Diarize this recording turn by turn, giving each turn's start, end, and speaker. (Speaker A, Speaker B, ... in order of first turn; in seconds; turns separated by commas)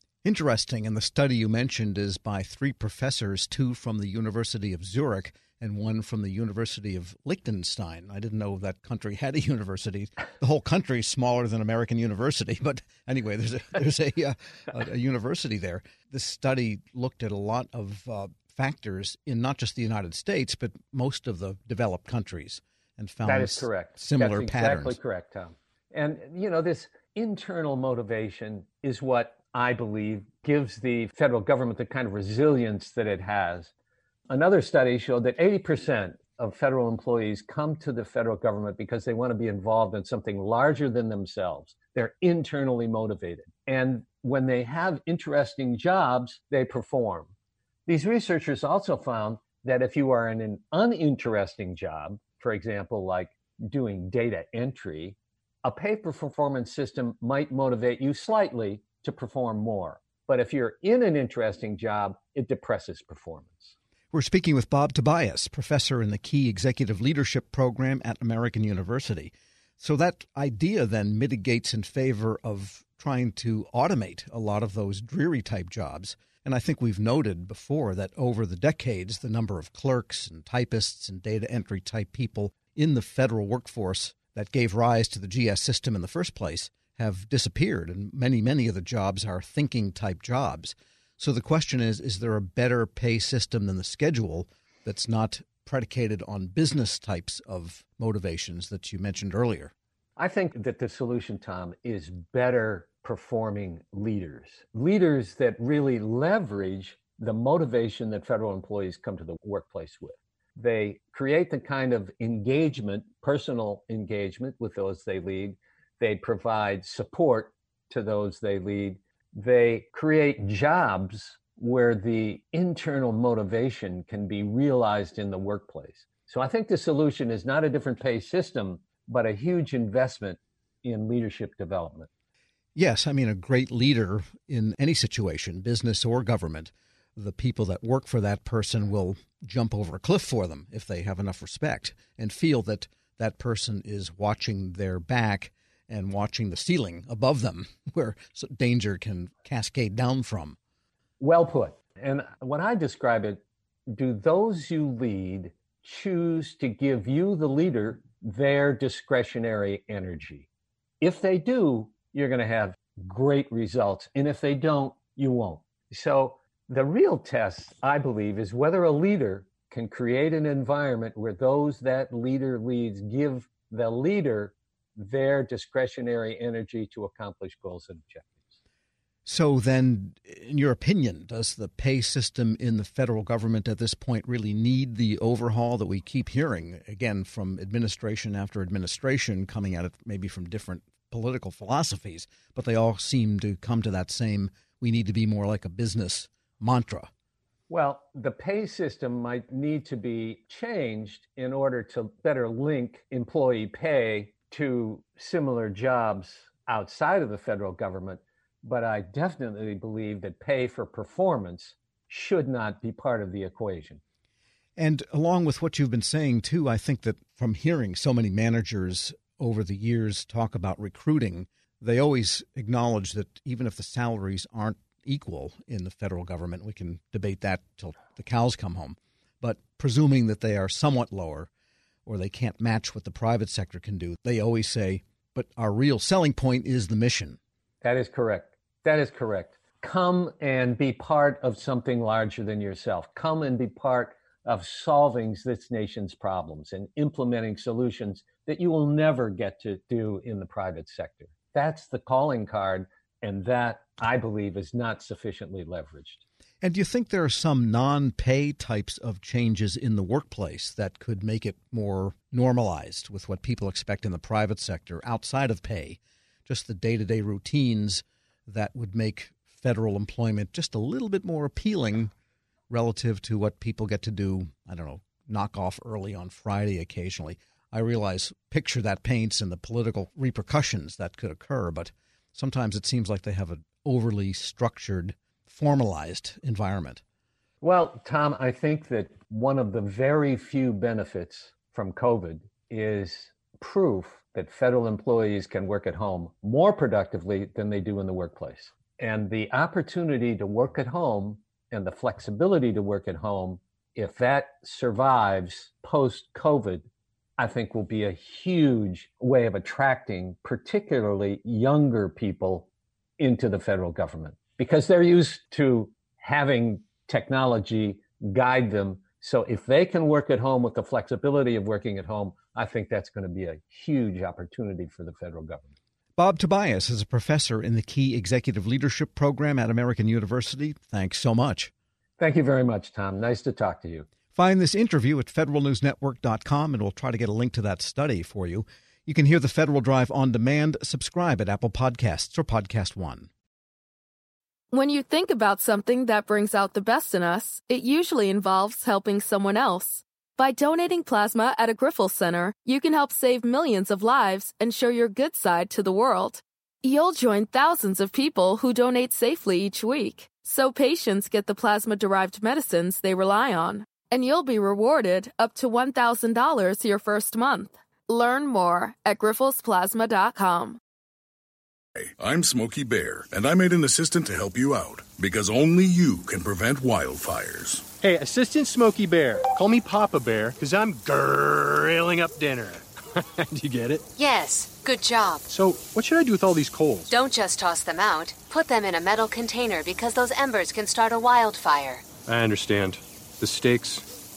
Speaker A: 0.2-25.0, Speaker B: 23.2-33.7, Speaker B: 34.3-47.3, Speaker B: 47.9-63.8, Speaker A: 64.1-99.7, Speaker B: 100.2-132.1, Speaker A: 132.8-150.6, Speaker B: 151.2-160.5, Speaker B: 161.0-178.5, Speaker A: 179.2-197.1, Speaker B: 197.7-214.0, Speaker A: 214.8-231.5, Speaker A: 232.1-237.4, Speaker B: 237.8-256.2, Speaker A: 256.6-272.1, Speaker A: 272.7-287.0, Speaker B: 287.6-306.9, Speaker B: 307.4-312.7, Speaker B: 313.2-325.7, Speaker A: 326.2-331.7, Speaker B: 332.2-334.1, Speaker A: 334.3-343.3, Speaker C: 344.7-370.8, Speaker D: 372.2-377.8, Speaker E: 378.0-384.0, Speaker F: 384.2-385.5, Speaker E: 385.5-386.9, Speaker F: 387.1-392.1, Speaker E: 392.3-394.1